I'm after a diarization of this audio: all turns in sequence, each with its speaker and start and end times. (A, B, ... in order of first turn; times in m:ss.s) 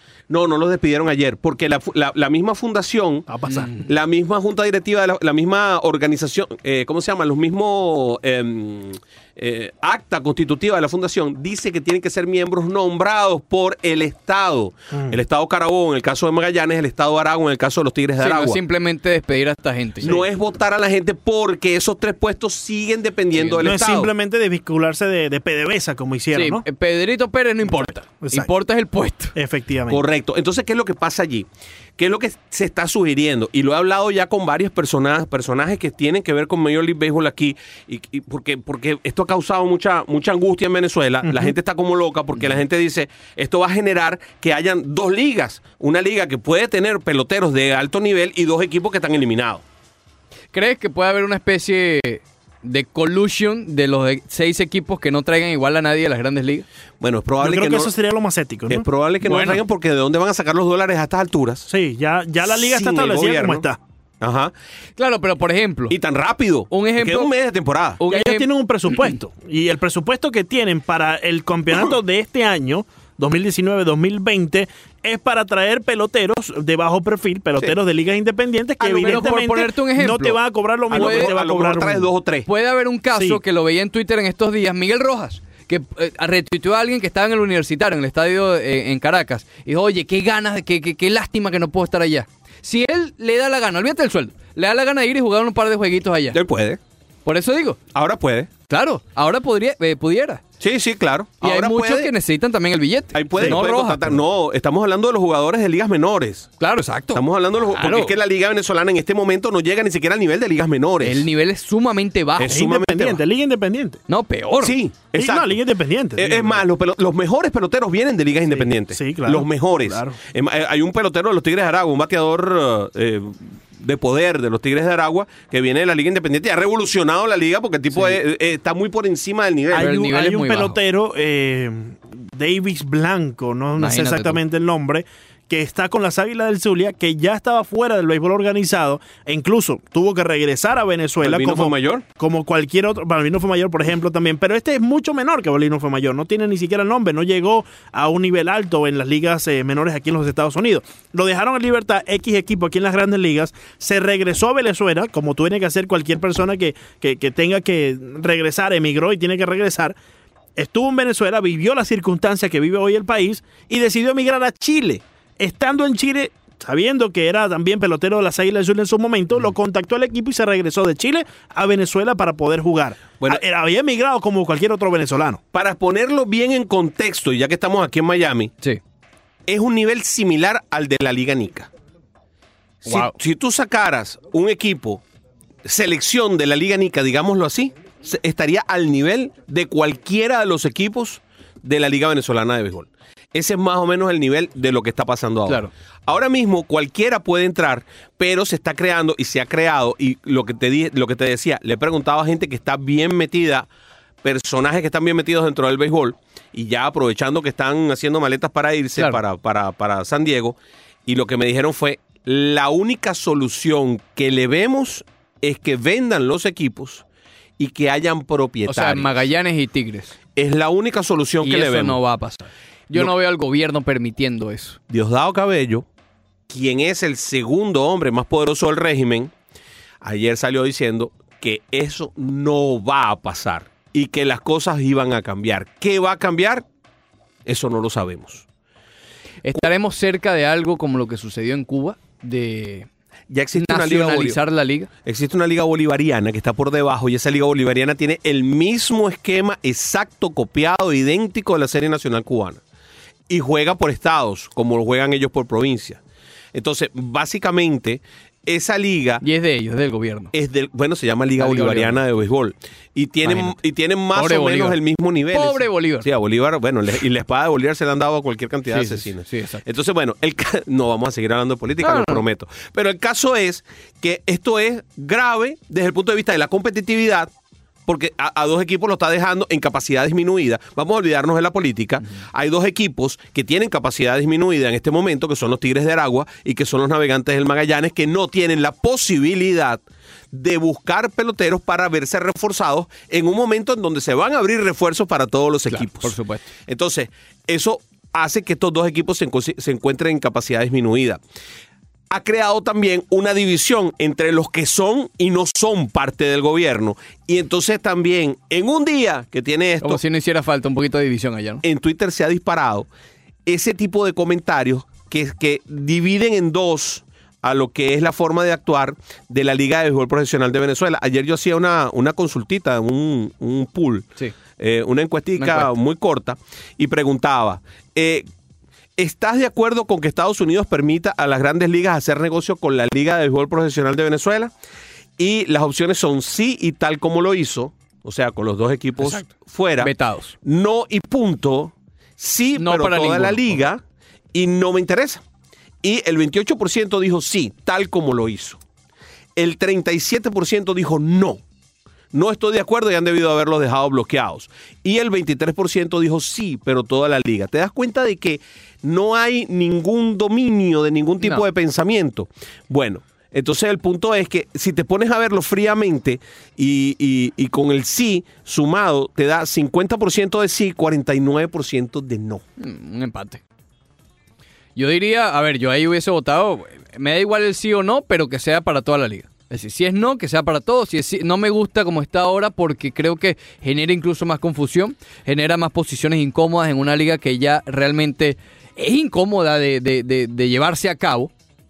0:00.3-0:18.6 A
0:03.3-0:03.7 B
0:18.2-0:20.2 C
0:20.0-0:24.1 A
0:23.3-0:23.8 C
0:23.6-0:26.6 B
0:26.3-0:29.3 C
0:28.2-0:28.5 B
0:29.4-0:30.0 B
0:29.9-0:49.6 A
0:50.5-0:56.6 C
0:57.0-0:57.9 A
0:57.4-0:58.8 B
0:58.7-1:01.7 A
0:59.2-0:59.6 C
1:01.7-1:03.8 B
1:02.5-1:03.6 A
1:04.2-1:04.5 A
1:05.0-1:06.0 C
1:05.9-1:08.0 A
1:06.7-1:07.3 C
1:08.0-1:09.1 C
1:08.1-1:22.1 B
1:18.8-1:19.4 A
1:19.0-1:20.4 C
1:20.9-1:21.3 C
1:20.9-1:22.5 A
1:22.4-1:36.4 C
1:36.3-1:36.8 A
1:37.2-1:37.8 C
1:37.9-1:38.5 A
1:38.7-1:40.4 C
1:40.6-1:42.1 A
1:41.4-1:44.2 C
1:43.1-1:46.5 A
1:46.6-1:47.2 C
1:47.1-1:51.2 A
1:47.7-1:48.1 C
1:51.0-1:52.6 C
1:52.4-1:53.2 A
1:52.4-1:54.0 B
1:54.1-1:54.8 C
1:54.6-1:55.6 A
1:55.1-1:56.6 B
1:56.2-2:09.9 A
1:58.5-2:00.2 B
2:07.9-2:08.2 C
2:09.7-2:40.0 B
2:09.7-2:10.8 C
2:13.8-2:14.4 C
2:21.2-2:22.0 A
2:40.6-2:55.4 B
2:55.5-2:58.5 A
2:59.5-3:01.7 A
3:02.8-3:05.0 A
3:02.8-3:03.1 C
3:05.6-3:23.7 A
3:24.2-3:37.0 A
3:37.6-3:39.1 A
3:38.7-3:40.1 C
3:40.4-3:42.0 A
3:41.4-3:44.8 C
3:44.9-3:45.8 A
3:46.5-3:49.3 A
3:50.0-3:56.6 A
3:57.4-3:58.4 A
3:59.4-4:02.9 C
4:03.3-4:04.4 A
4:03.5-4:04.9 C
4:05.0-4:12.6 A
4:13.3-4:16.0 A
4:16.5-4:19.2 A
4:19.2-4:20.3 C
4:20.3-4:37.3 A
4:21.4-4:22.0 C
4:23.2-4:23.6 C
4:24.1-4:24.8 C
4:25.3-4:26.1 C
4:28.7-4:29.6 C
4:31.8-4:32.2 C
4:37.9-5:01.2 A
4:55.7-4:56.5 C
5:02.1-5:10.0 A
5:09.8-5:11.6 C
5:11.6-5:12.9 A
5:13.4-5:28.2 A
5:25.4-5:25.7 C
5:29.0-5:34.5 A
5:35.2-5:43.8 A
5:39.0-5:39.2 C
5:39.8-5:40.3 C
5:42.6-5:43.6 C
5:44.3-5:45.2 A
5:45.8-5:48.6 A
5:49.4-5:51.4 A
5:52.1-6:12.4 A
6:01.2-6:01.4 C
6:12.6-6:13.4 C
6:14.8-6:31.3 C